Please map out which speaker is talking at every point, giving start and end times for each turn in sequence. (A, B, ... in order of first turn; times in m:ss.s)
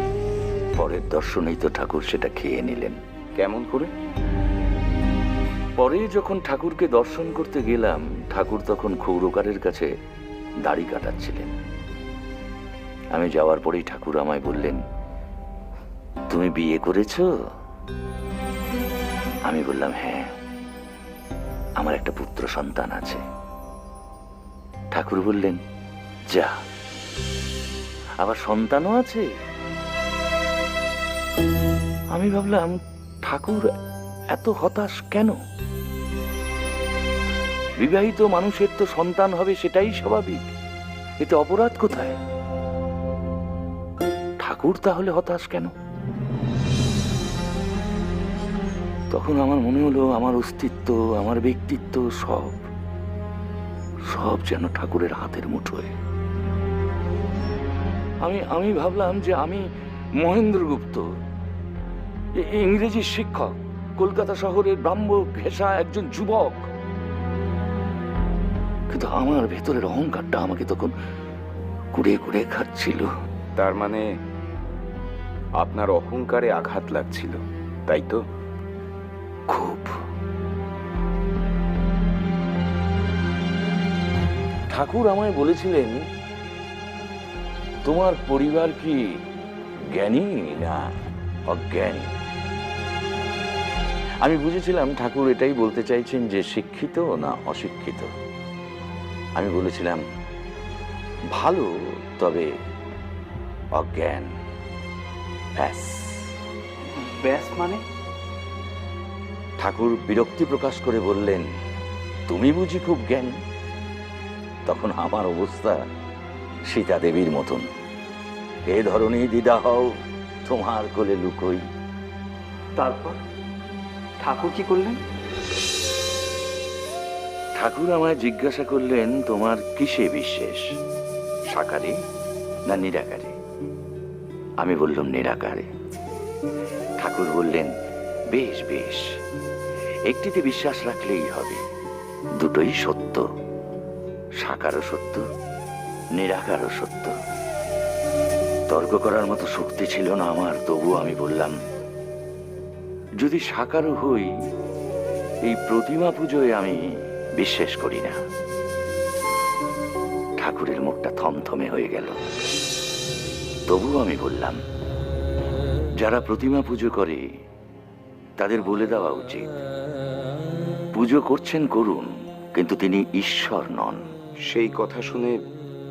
0:00.7-0:03.0 A
0:03.4-0:03.9 B
0:05.8-0:09.9 A
0:10.6-0:11.5 A
0:13.1-0:14.8 A
0:16.3-0:17.3 A
0:19.4-0:20.3 A
0:21.8-0:23.2 A
0:24.9-0:25.6 A
0:26.3-0:26.6 A
0:28.2-0:29.3 A
0:32.1-0:33.7 A
0:34.3-0:35.4 A
0:37.8-0:40.4 A
0:41.2-0:42.2 A
0:44.4-0:45.7 A
0:49.1-0:52.7 A
0:54.1-0:55.9 A
0:58.2-0:59.6 A
1:00.2-1:01.0 A
1:02.3-1:06.7 A
1:08.9-1:10.9 A
1:11.9-1:13.1 A
1:13.6-1:14.0 B
1:15.6-1:18.2 B
1:19.5-1:20.0 A
1:24.7-1:26.0 A
1:27.8-1:29.0 A
1:29.9-1:30.9 A
1:31.5-1:32.1 A
1:34.2-1:38.1 A
1:39.4-1:40.0 A
1:41.3-1:42.5 A
1:43.8-1:44.3 A
1:45.6-1:46.3 A
1:47.0-1:47.8 C
1:49.6-1:51.5 A
1:52.3-1:53.4 A
1:54.6-1:55.8 A
1:56.7-1:57.7 A
1:58.7-1:59.9 A
2:00.4-2:01.6 A
2:02.8-2:03.2 C
2:04.2-2:05.0 C
2:07.6-2:10.7 A
2:11.5-2:12.0 A
2:12.7-2:13.3 A
2:14.6-2:15.7 A
2:17.0-2:17.7 A
2:18.3-2:19.0 A
2:20.1-2:21.6 A
2:22.4-2:23.2 A
2:24.4-2:25.2 A
2:26.2-2:27.1 A
2:28.7-2:31.6 A
2:33.2-2:34.3 A
2:35.4-2:36.8 A
2:37.4-2:38.2 A
2:40.4-2:42.2 A
2:43.7-2:44.6 A
2:46.0-2:47.2 A
2:48.4-2:49.5 A
2:50.9-2:54.0 A
2:54.5-2:55.4 B